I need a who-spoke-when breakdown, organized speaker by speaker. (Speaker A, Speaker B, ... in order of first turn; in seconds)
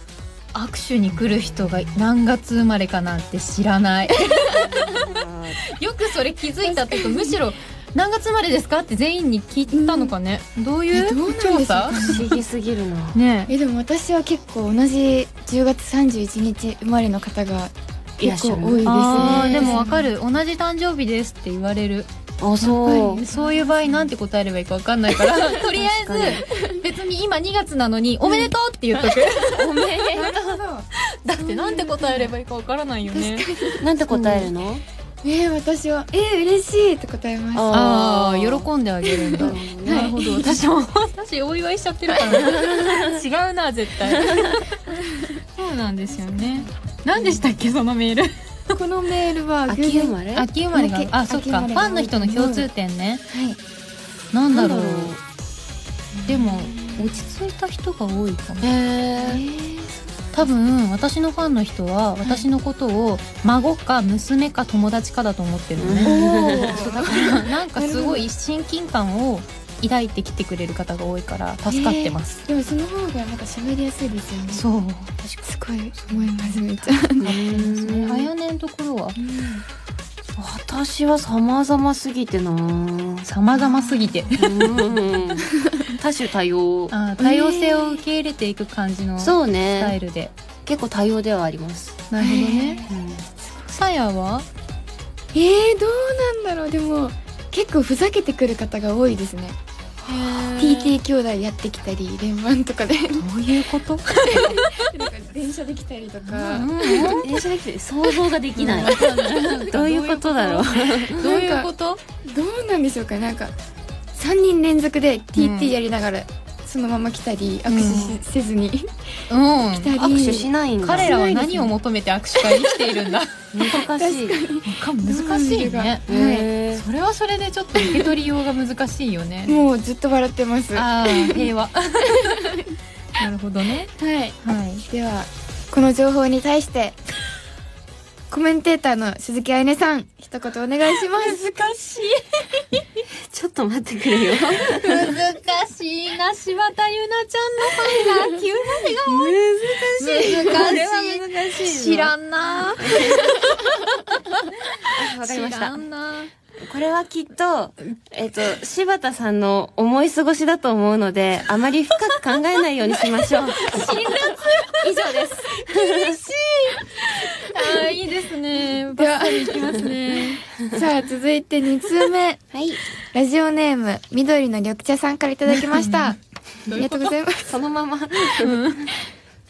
Speaker A: 0.5-12.4, 13.1-13.5, 18.9-22.1, 22.6-30.1, 31.0-34.5, 37.7-44.6, 45.6-48.8, 50.4-53.2, 54.3-55.2, 56.3-58.7, 60.3-72.5, 74.5-79.2, 83.3-85.0, 86.9-90.3, 92.1-92.9, 93.6-94.5, 100.0-101.0, 103.2-104.8, 106.2-107.4, 108.5-112.0, 115.4-115.7, 117.7-118.1, 119.3-119.9, 120.8-123.5, 124.7-126.0, 126.7-129.6, 130.7-132.6, 133.2-133.9, 134.4-134.8, 141.2-142.8, 144.7-156.3, 163.6-170.4, 175.5-176.2, 176.7-177.1, 178.3-178.9
Speaker B: 4.5-5.6, 11.9-13.2, 18.2-19.9, 22.4-23.2, 25.7-26.4, 29.1-30.6, 33.8-34.8, 37.5-38.7, 39.4-40.2, 42.3-43.2, 44.2-44.5, 49.7-50.5, 54.5-55.2, 58.6-59.4, 65.8-66.9, 77.2-78.3, 80.4-83.3, 84.4-86.9, 89.2-90.0, 90.7-92.0, 92.9-93.2, 106.8-111.3, 117.8-118.2, 120.0-121.7, 123.5-124.4, 126.1-126.8, 143.3-145.1, 149.1-152.1, 152.8-153.4, 154.9-155.8, 156.6-164.0, 164.7-166.2, 172.5-172.8, 177.5-178.7
Speaker C: 6.6-7.4, 9.7-10.1, 10.9-12.3, 13.5-20.1, 23.2-24.0, 30.1-32.3, 33.1-33.9, 35.2-37.7, 39.3-40.6, 44.9-45.4, 48.7-50.2, 50.7-52.7, 53.3-53.6, 56.2-57.1, 59.2-60.0, 66.0-68.3, 71.7-74.6, 75.5-77.3, 79.2-79.6, 83.9-84.2, 85.5-86.0, 87.2-88.0, 92.2-92.9, 95.3-99.6, 100.6-103.3, 104.3-107.2, 111.2-111.7, 112.2-113.5, 114.1-118.9, 119.7-120.5, 123.7-126.5, 127.8-128.1, 129.5-131.5, 132.1-132.8, 133.9-137.0, 138.3-141.7, 150.3-150.7, 169.0-169.8, 170.6-172.4, 173.1-176.2, 176.7-177.6